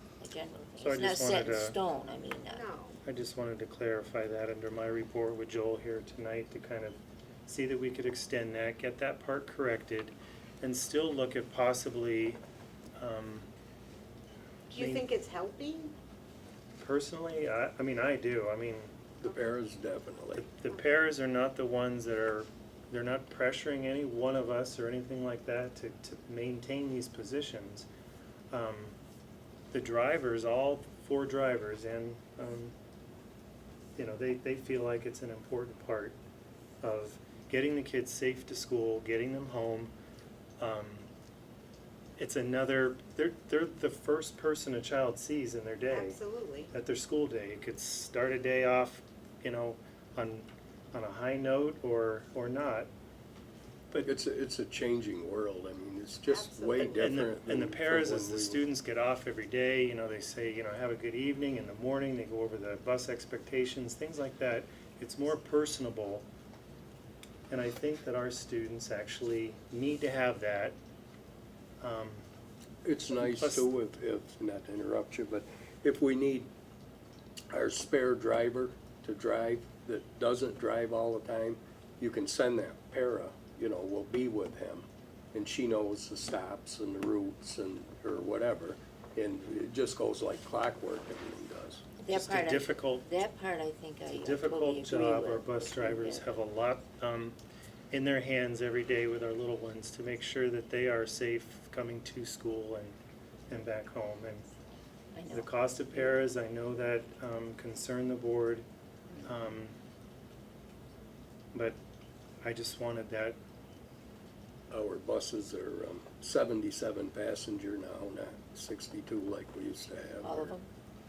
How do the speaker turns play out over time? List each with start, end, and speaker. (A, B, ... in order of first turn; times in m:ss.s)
0:00.2-0:02.7 A
0:00.8-0:01.8 B
0:02.5-0:03.0 C
0:03.0-0:12.4 B
0:13.0-0:13.5 B
0:14.7-0:15.9 C
0:14.8-0:15.0 B
0:16.8-0:18.9 B
0:19.2-0:20.5 D
0:20.3-0:27.9 B
0:28.5-0:29.0 B
0:29.7-0:32.7 B
0:34.0-0:36.2 B
0:36.8-0:39.9 B
0:40.6-0:41.1 B
0:42.2-0:46.2 B
0:45.9-0:46.7 C
0:46.7-0:52.9 B
0:54.0-0:58.6 D
0:56.2-0:57.2 C
0:56.8-1:06.2 B
1:07.5-1:10.7 B
1:11.8-1:12.2 B
1:12.8-1:16.5 D
1:13.1-1:13.7 B
1:17.5-1:31.9 D
1:32.0-1:36.3 A
1:32.1-1:33.0 B
1:34.1-1:37.4 B
1:37.9-1:43.0 B
1:43.5-1:44.4 B
1:45.1-1:46.2 A
1:45.3-1:48.6 B
1:49.2-1:49.8 B
1:52.4-1:53.4 B
1:54.7-2:00.5 D
2:00.2-2:00.6 A